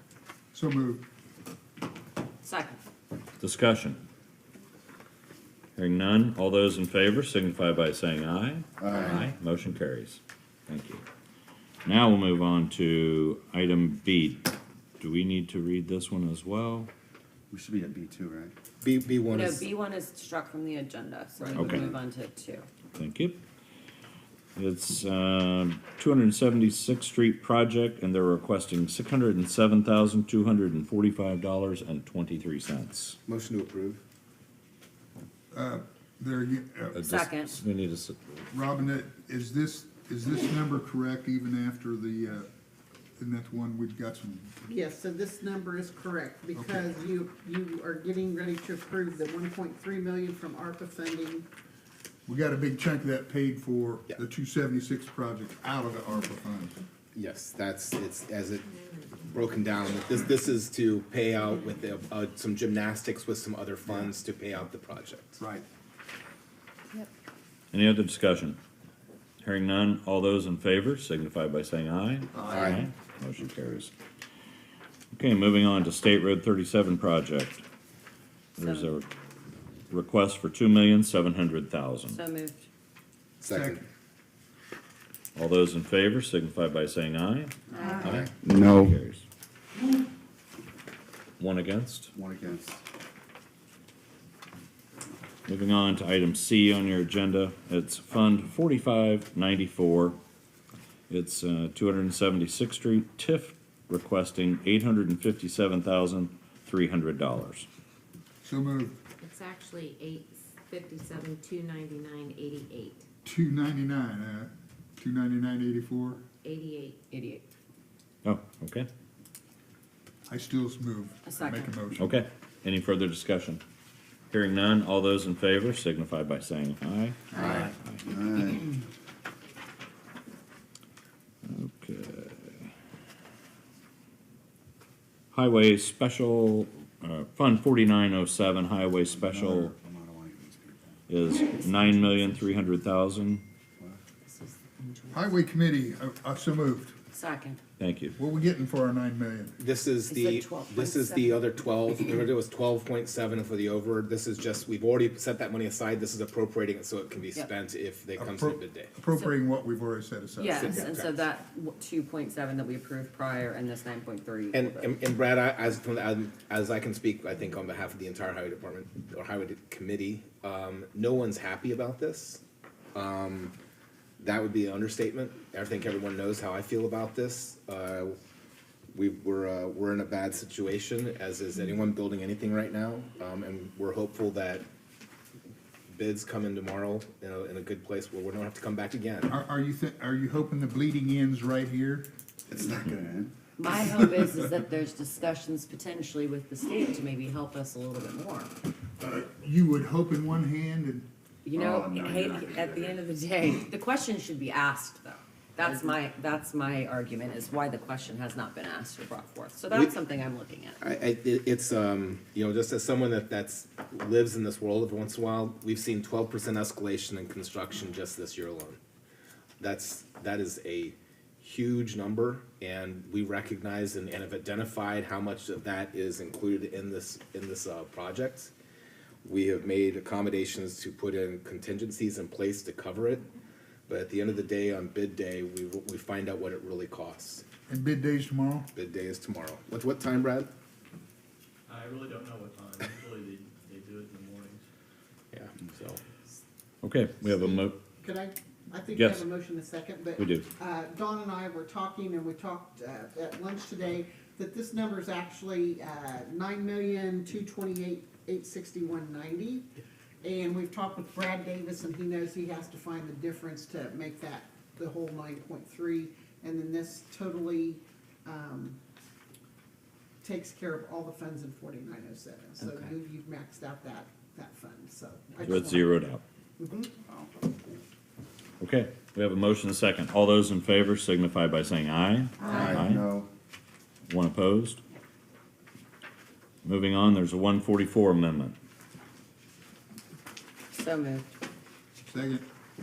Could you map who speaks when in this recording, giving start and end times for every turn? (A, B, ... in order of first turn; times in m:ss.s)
0:00.5-0:01.0 A
0:02.4-0:02.8 B
0:03.4-0:04.0 C
0:05.8-0:11.0 C
0:08.8-0:09.3 D
0:11.8-0:16.9 C
0:17.5-0:18.5 D
0:18.8-0:19.7 E
0:19.3-0:22.7 B
0:21.5-0:22.0 D
0:21.6-0:21.9 C
0:23.0-0:23.4 C
0:24.6-0:33.2 C
0:33.3-0:34.0 E
0:35.5-0:37.2 A
0:37.0-0:38.4 C
0:37.1-0:37.6 B
0:38.5-0:42.5 A
0:43.2-0:44.5 A
0:44.7-0:51.5 F
0:46.6-0:46.8 A
0:52.3-0:56.8 A
0:57.1-0:58.7 E
0:59.3-1:05.4 E
1:07.7-1:08.6 C
1:09.4-1:13.9 C
1:12.4-1:12.7 D
1:12.4-1:12.8 E
1:15.1-1:17.6 C
1:18.6-1:19.0 B
1:18.6-1:19.1 C
1:19.9-1:22.2 C
1:22.1-1:22.7 B
1:23.4-1:23.8 A
1:23.4-1:23.8 E
1:25.4-1:29.2 C
1:28.0-1:28.3 E
1:28.4-1:29.0 D
1:31.4-1:32.1 C
1:32.1-1:32.8 D
1:35.5-1:40.2 C
1:41.1-1:47.7 C
1:48.4-1:49.0 A
1:49.2-1:53.1 G
1:53.2-1:56.2 A
1:56.4-1:57.0 G
1:57.1-1:57.4 B
1:58.2-1:58.9 C
2:00.3-2:02.1 A
2:01.2-2:01.8 B
2:02.0-2:03.6 C
2:04.3-2:08.0 C
2:07.4-2:08.8 D
2:11.4-2:12.7 C
2:15.3-2:19.7 C
2:19.1-2:21.0 D
2:21.1-2:23.4 C
2:24.3-2:25.4 B
2:25.1-2:27.0 A
2:27.1-2:27.6 B
2:27.8-2:28.2 C
2:28.2-2:29.6 A
2:29.6-2:38.9 E
2:30.1-2:31.5 B
2:38.2-2:40.9 A
2:40.4-2:45.0 B
2:40.5-2:41.2 E
2:44.5-2:52.4 E
2:52.9-2:53.6 E
2:54.2-2:58.2 E
2:58.9-3:04.7 E
3:05.9-3:09.3 E
3:09.3-3:12.1 A
3:12.5-3:13.4 D
3:13.6-3:18.6 B
3:19.0-3:21.1 A
3:21.4-3:30.8 B
3:21.5-3:23.0 D
3:30.8-3:38.8 E
3:39.6-3:48.5 E
3:49.2-3:53.3 E
3:53.9-3:57.4 E
3:57.7-3:58.7 A
3:58.7-4:00.5 E
4:01.7-4:04.6 H
4:05.3-4:06.0 E
4:06.8-4:07.8 C
4:08.0-4:19.7 F
4:09.0-4:09.3 C
4:10.2-4:10.5 C
4:20.2-4:28.8 F
4:30.2-4:36.0 F
4:32.6-4:32.9 B
4:35.4-4:36.2 C
4:36.6-4:36.9 F
4:37.1-4:37.6 D
4:38.6-4:43.1 C
4:42.4-4:43.3 D
4:42.5-4:42.8 B
4:44.1-4:44.8 C
4:46.6-4:48.6 C
4:50.7-4:51.3 B
4:52.0-4:52.4 A